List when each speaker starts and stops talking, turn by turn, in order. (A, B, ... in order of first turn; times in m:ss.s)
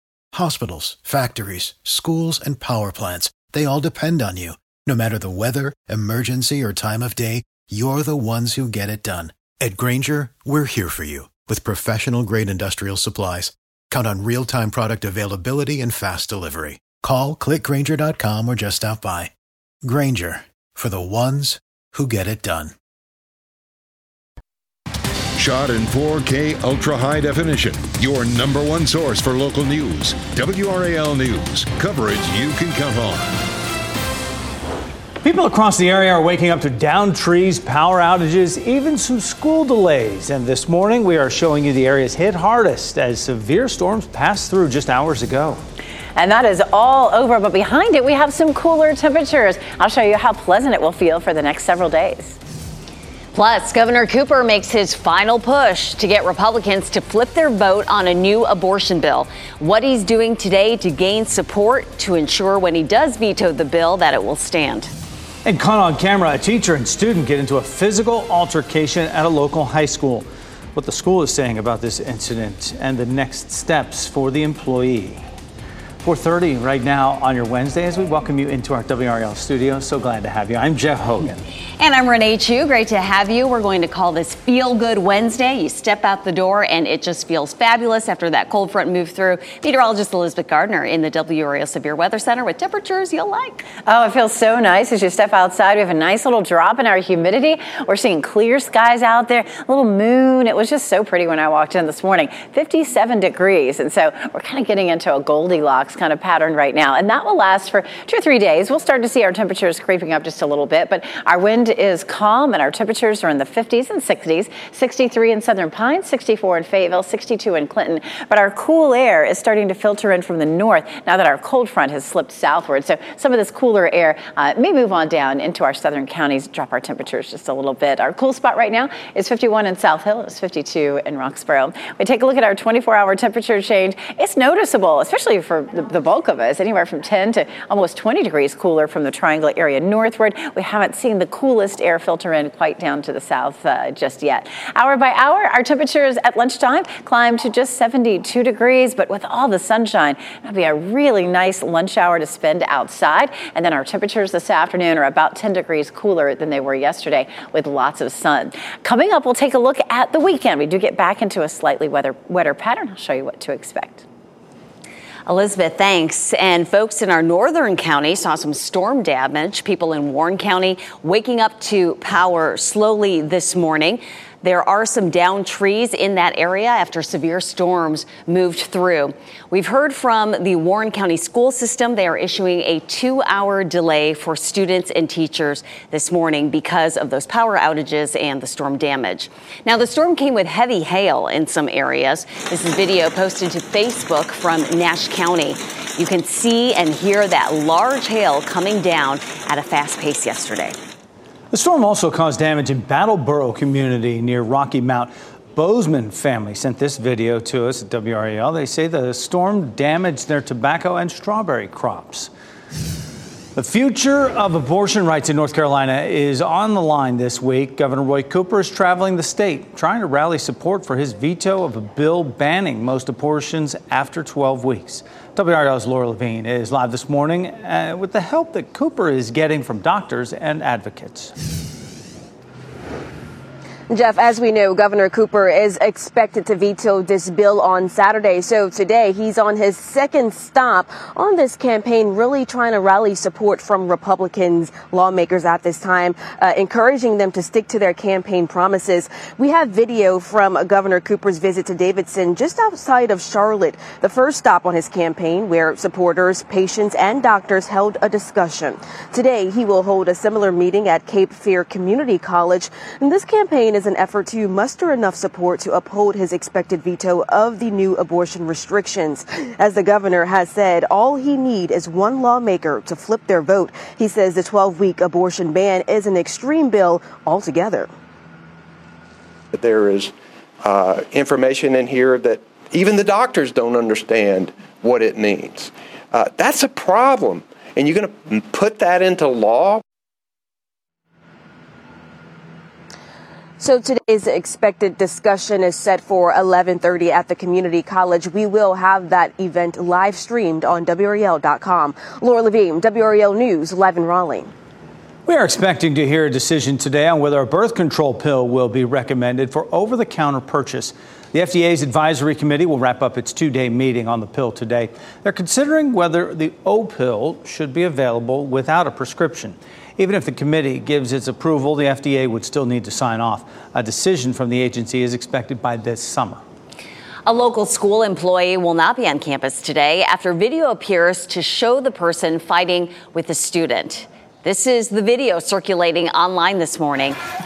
0:00.3-0:19.3 A
0:19.8-0:22.8 A
0:25.4-0:33.4 B
0:35.2-0:45.6 C
0:46.2-0:52.4 D
0:53.3-1:04.9 E
1:05.5-1:15.2 C
1:16.0-1:21.4 C
1:21.8-1:33.6 E
1:33.9-2:44.0 D
2:45.3-3:20.8 E
3:21.5-3:32.3 C
3:33.6-3:51.3 C
3:53.9-4:37.9 F
4:39.5-4:49.8 G
4:53.6-5:04.5 F
5:05.3-5:26.4 C
5:27.2-5:37.2 E